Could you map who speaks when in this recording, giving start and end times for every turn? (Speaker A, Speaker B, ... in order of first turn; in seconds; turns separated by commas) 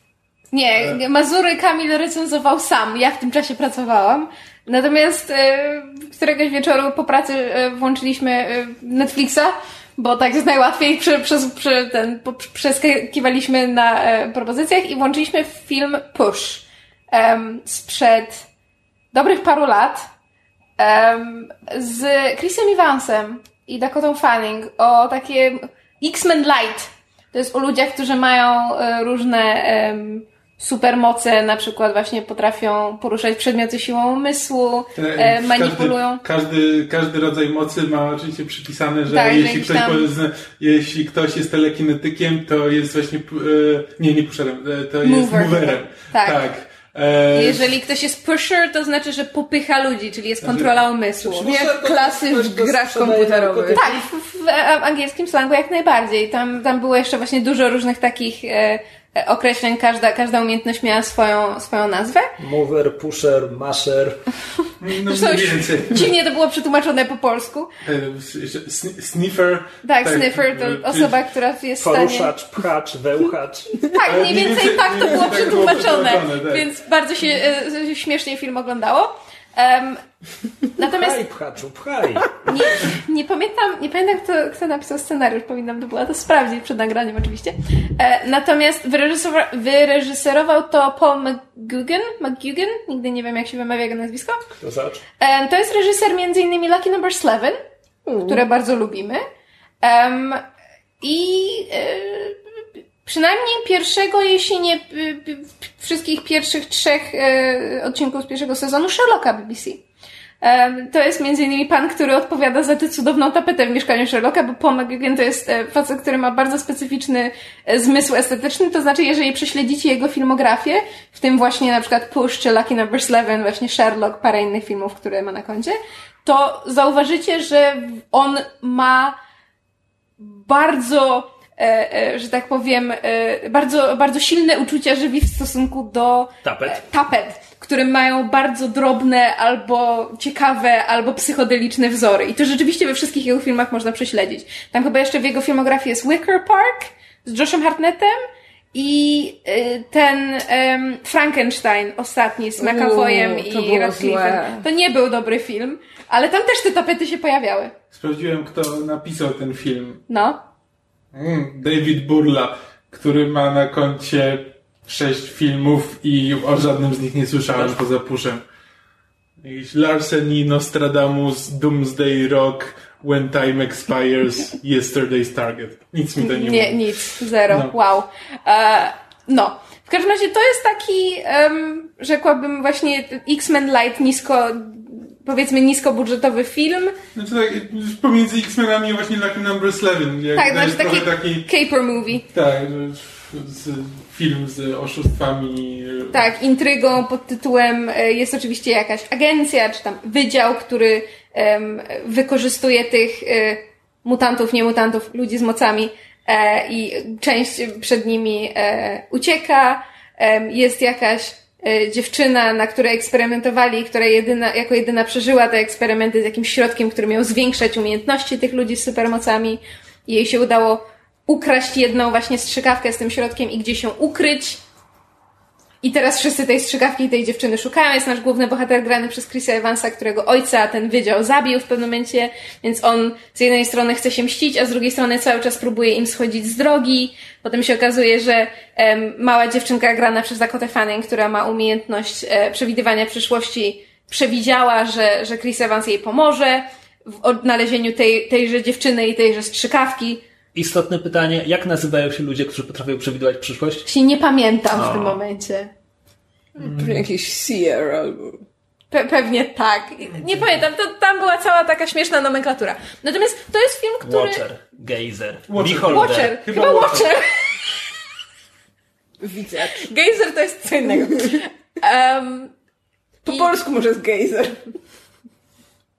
Speaker A: 0.5-18.4, Speaker A: 19.1-20.0, Speaker A: 20.8-36.2, Speaker B: 34.9-47.6, Speaker A: 39.1-40.1, Speaker A: 45.0-46.4, Speaker A: 47.3-51.5, Speaker B: 50.4-50.7, Speaker C: 51.2-54.0, Speaker D: 51.4-54.0, Speaker A: 53.8-62.3, Speaker C: 62.4-64.3, Speaker B: 64.8-66.1, Speaker A: 65.1-67.7, Speaker B: 67.8-71.2, Speaker A: 69.8-72.3, Speaker C: 71.8-73.8, Speaker A: 73.9-80.0, Speaker B: 74.0-76.7, Speaker A: 80.8-81.2, Speaker C: 80.9-82.3, Speaker A: 82.5-94.5, Speaker C: 94.6-95.0, Speaker A: 95.2-97.6, Speaker D: 98.0-98.4, Speaker A: 98.2-99.2, Speaker A: 99.8-100.4, Speaker A: 101.0-102.4, Speaker A: 103.0-109.8, Speaker A: 110.4-129.2, Speaker A: 130.2-157.7, Speaker C: 136.4-136.8, Speaker D: 152.6-154.6, Speaker B: 157.9-160.0, Speaker A: 160.1-160.4, Speaker B: 161.1-168.4, Speaker B: 169.4-176.8, Speaker A: 176.2-186.9, Speaker B: 177.5-177.7, Speaker B: 187.1-191.5, Speaker A: 190.3-192.2, Speaker B: 192.3-196.2, Speaker A: 196.1-224.6, Speaker A: 225.8-250.2, Speaker C: 250.5-253.9, Speaker A: 253.8-255.7, Speaker C: 254.7-255.2, Speaker D: 256.6-258.4, Speaker B: 256.6-257.0, Speaker A: 258.9-264.4, Speaker C: 264.0-266.4, Speaker B: 265.5-267.1, Speaker A: 265.9-267.9, Speaker D: 269.2-269.9, Speaker A: 269.8-272.5, Speaker D: 273.2-274.6